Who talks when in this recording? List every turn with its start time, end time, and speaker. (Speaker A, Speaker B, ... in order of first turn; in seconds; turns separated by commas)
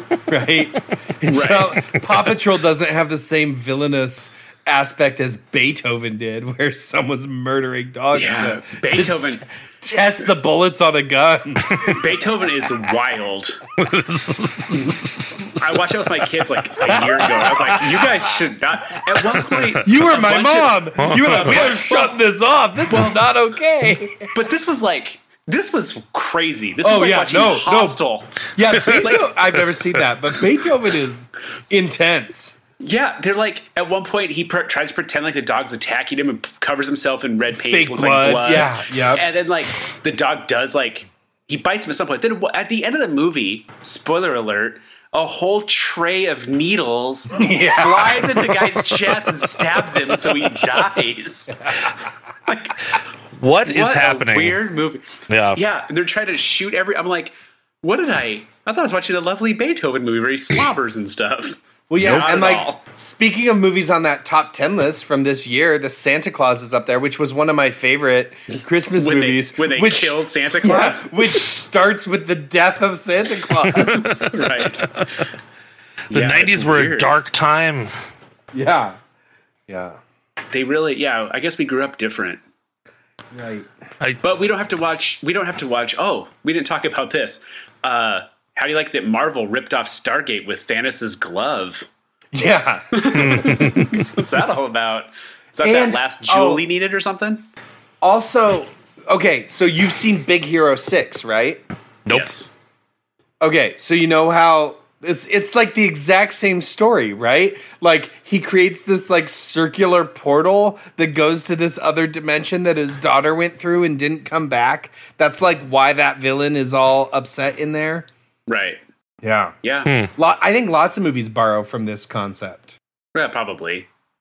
Speaker A: 0.3-11.9, Speaker B: 1.2-1.9, Speaker B: 8.1-9.4, Speaker B: 11.8-13.6, Speaker C: 13.8-15.3, Speaker B: 15.5-22.1, Speaker A: 16.9-18.2, Speaker A: 19.7-24.3, Speaker C: 21.0-21.9, Speaker B: 22.9-23.2, Speaker B: 24.3-29.3, Speaker A: 26.8-28.0, Speaker A: 28.5-32.6, Speaker B: 32.8-51.9, Speaker A: 37.6-39.2, Speaker A: 47.3-48.8, Speaker B: 52.5-52.8, Speaker C: 53.4-54.6, Speaker B: 53.6-62.8, Speaker C: 55.3-55.6, Speaker A: 61.9-74.3, Speaker C: 62.0-62.4, Speaker B: 68.9-71.2, Speaker B: 74.1-75.0, Speaker B: 76.1-77.2, Speaker C: 76.1-77.9, Speaker A: 78.5-79.0, Speaker A: 79.7-80.0, Speaker B: 80.5-82.4, Speaker A: 83.3-83.7, Speaker B: 84.2-91.9, Speaker A: 92.3-93.8, Speaker B: 92.9-97.5, Speaker C: 93.1-94.0, Speaker A: 95.6-96.7, Speaker A: 98.0-101.6, Speaker C: 102.1-102.3, Speaker B: 102.1-102.5, Speaker A: 103.4-118.1, Speaker B: 118.5-118.8, Speaker A: 119.2-119.5, Speaker B: 119.6-119.9, Speaker A: 120.2-122.8, Speaker B: 123.1-123.9